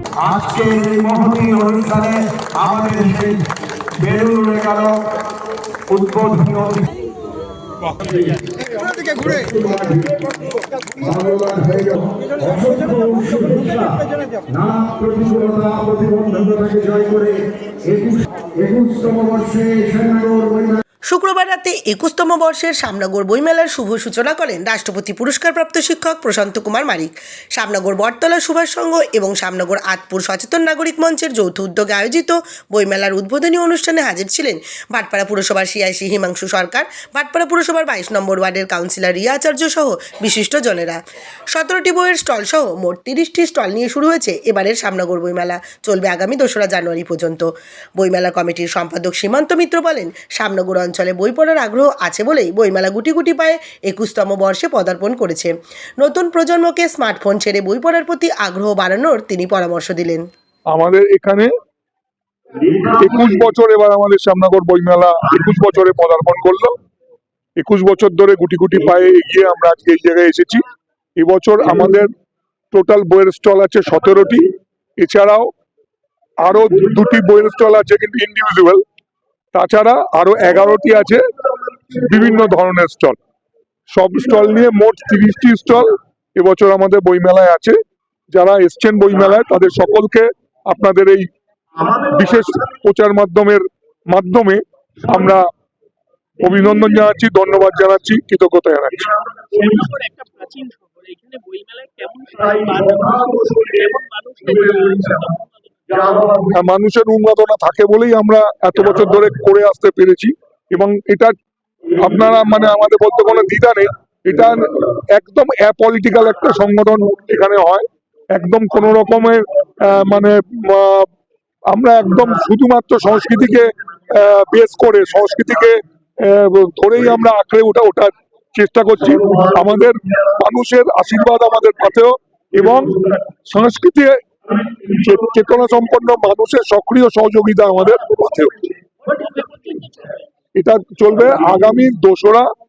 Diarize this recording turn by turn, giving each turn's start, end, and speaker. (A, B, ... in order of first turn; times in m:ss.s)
0:00.2-0:05.1 A
0:05.9-0:06.9 A
0:08.0-0:08.4 A
0:09.0-0:10.3 A
0:11.0-0:20.8 A
0:21.1-0:41.0 B
0:41.5-1:00.3 B
1:00.7-1:01.5 C
1:02.7-1:06.8 C
1:07.6-1:10.6 C
1:11.2-1:12.1 C
1:12.7-1:14.5 C
1:15.0-1:15.5 C
1:16.4-1:18.8 C
1:19.5-1:21.2 C
1:21.9-1:23.2 C
1:23.9-1:27.8 C
1:28.3-1:31.3 C
1:31.8-1:35.5 C
1:36.4-1:39.2 C
1:39.5-1:46.4 D
1:46.4-1:51.3 C
1:52.0-2:01.1 C
2:01.7-2:18.6 C
2:19.1-2:20.2 D
2:20.6-2:22.5 C